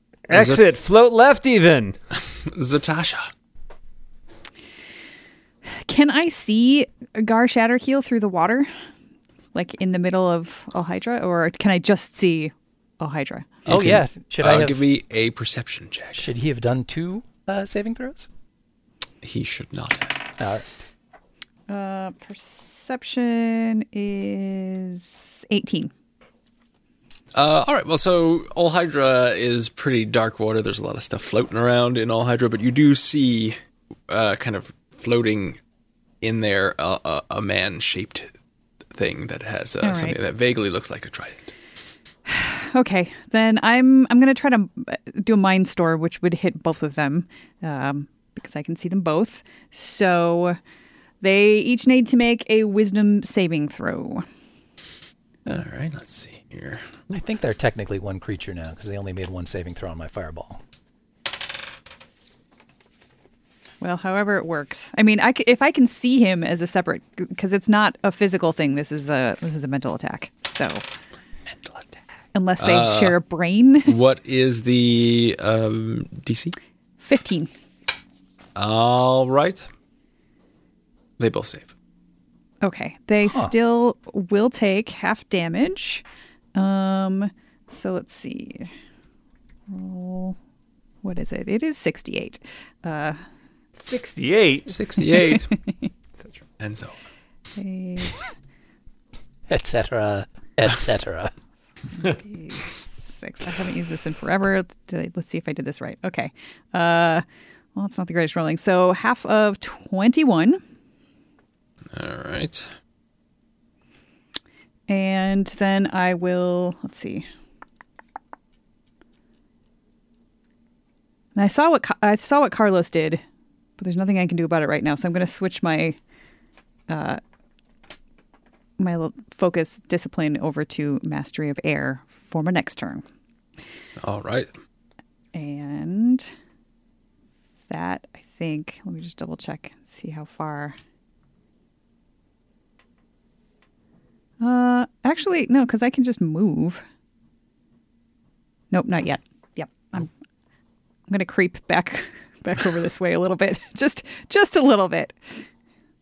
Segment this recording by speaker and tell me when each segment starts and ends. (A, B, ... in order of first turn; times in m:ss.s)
0:00.3-0:02.0 A
0:00.3-0:00.6 B
0:02.3-0:03.3 B
0:05.7-0:08.7 C
0:09.5-0:13.5 C
0:13.7-0:16.3 B
0:13.7-0:14.8 D
0:16.2-0:18.3 D
0:19.2-0:20.3 B
0:20.4-0:20.6 D
0:21.7-0:25.9 C
0:27.4-0:33.6 B
0:34.1-0:35.6 B
0:36.2-0:38.3 B
0:38.9-0:41.5 B
0:39.8-0:40.2 C
0:42.3-0:50.6 C
0:51.2-0:54.2 C
0:55.4-0:56.9 B
0:57.1-1:00.6 D
1:03.8-1:10.8 C
1:11.6-1:12.0 B
1:12.3-1:14.0 C
1:12.6-1:13.2 B
1:13.8-1:16.6 B
1:17.0-1:17.5 C
1:18.6-1:19.7 B
1:21.2-1:21.7 B
1:22.6-1:26.0 C
1:23.3-1:23.5 D
1:26.6-1:28.7 C
1:29.7-1:30.4 C
1:31.0-1:33.2 C
1:33.8-1:34.8 A
1:34.7-1:35.5 B
1:35.0-1:35.9 C
1:36.6-1:37.0 B
1:37.6-1:38.3 C
1:39.5-1:41.3 D
1:41.9-1:47.2 C
1:47.8-1:50.6 C
1:51.9-1:52.7 B
1:54.9-1:57.3 C
2:01.4-2:03.2 C
2:03.8-2:06.0 C
2:06.9-2:07.2 C
2:08.8-2:13.0 C
2:14.0-2:14.5 B
2:15.3-2:16.3 C
2:17.7-2:20.8 C
2:24.4-2:26.8 C
2:28.7-2:30.1 C
2:31.1-2:35.2 C